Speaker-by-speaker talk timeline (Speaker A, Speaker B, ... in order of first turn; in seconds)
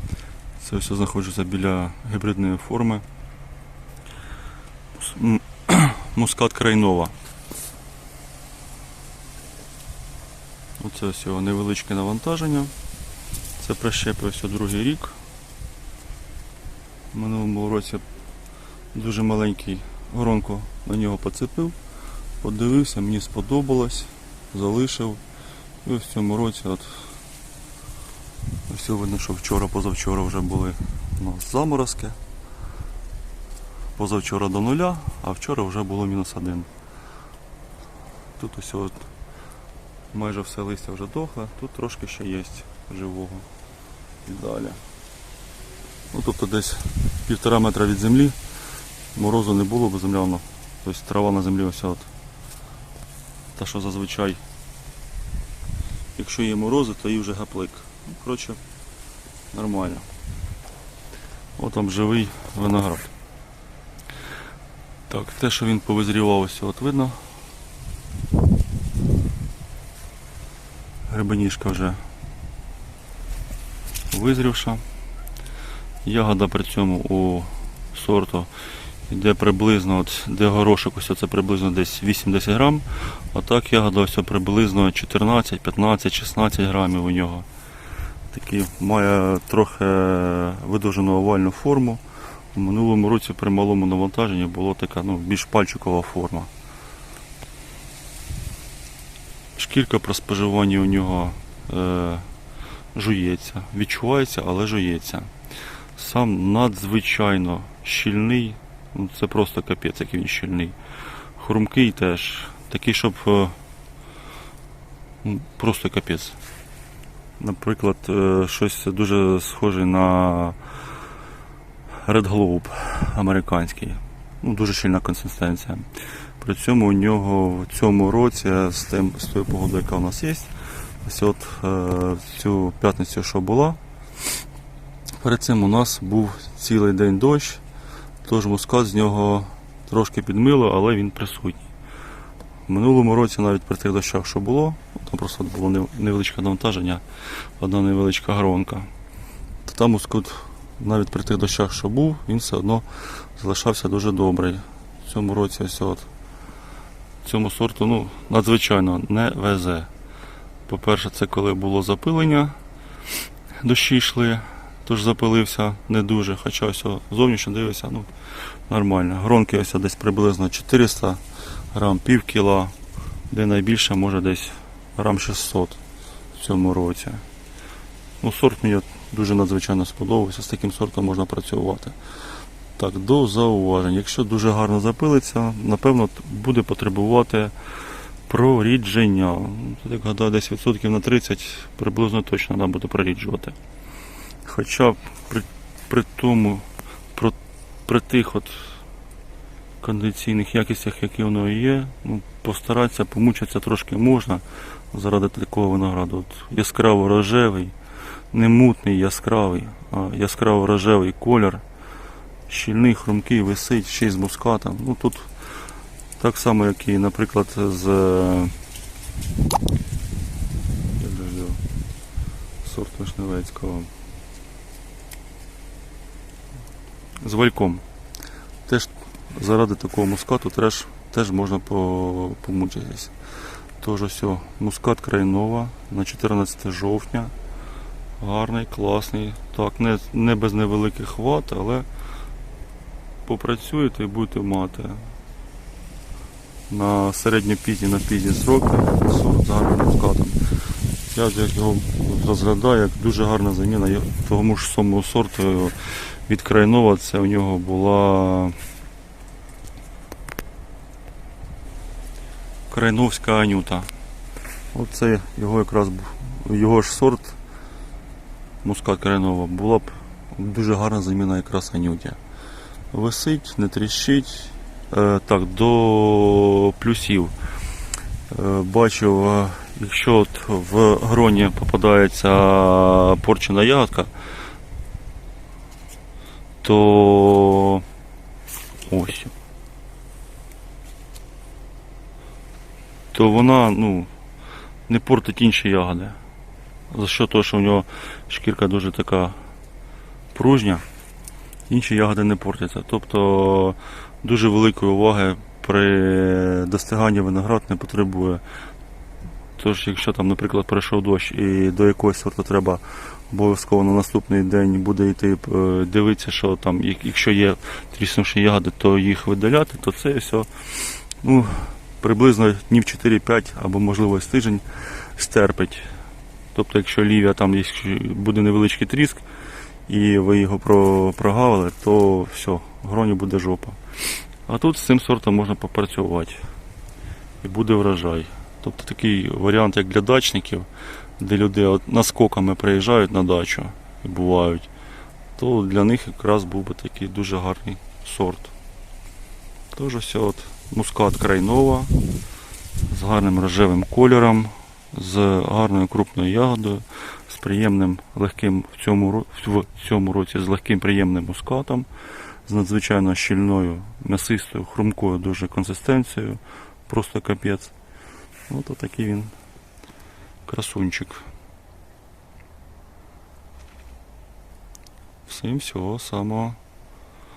Speaker A: 0.6-3.0, 5.0-7.1, 10.8-12.7, 13.6-15.2, 17.1-18.0, 18.9-21.8, 22.4-25.2, 25.8-27.0, 28.7-32.2, 34.0-36.7, 38.4-39.1, 40.1-43.5, 44.2-44.8, 46.1-48.4, 49.1-52.1, 53.5-54.4, 56.1-58.6, 59.5-60.0, 61.6-63.1, 65.1-67.2, 71.1-72.0, 74.1-74.8, 76.0-78.5, 79.1-87.5, 88.3-96.5, 99.5-102.3, 102.9-105.3, 106.0-110.8, 111.3-113.6, 115.2-116.4, 117.4-120.6, 122.0-125.9, 126.4-133.8, 135.2-137.6, 138.2-141.7, 142.7-147.0, 147.6-148.9, 149.6-156.1, 157.2-159.9, 160.7-162.6, 163.6-168.1, 168.7-172.7, 173.3-175.8, 176.3-177.2, 178.2-182.0, 182.8-187.6, 188.3-193.6, 194.4-198.7, 199.8-207.7, 208.3-211.6, 212.5-215.3, 216.2-218.6, 220.9-221.6, 222.6-223.9, 227.2-227.8, 228.7-233.1, 233.8-237.3, 238.2-241.9, 243.2-245.1, 246.7-250.4, 251.1-258.6, 262.7-263.9, 264.7-267.4, 268.6-272.2, 272.9-277.3, 278.3-284.1, 286.6-287.8, 288.8-289.3, 293.1-294.1, 294.9-296.2, 296.9-299.4, 300.3-300.8, 301.7-308.4, 309.6-325.9, 326.5-329.2, 329.9-336.4, 337.4-340.7, 341.2-344.7, 345.4-348.5, 349.7-351.9, 352.8-361.9, 362.4-367.7, 368.5-369.3, 370.5-371.3, 375.3-376.6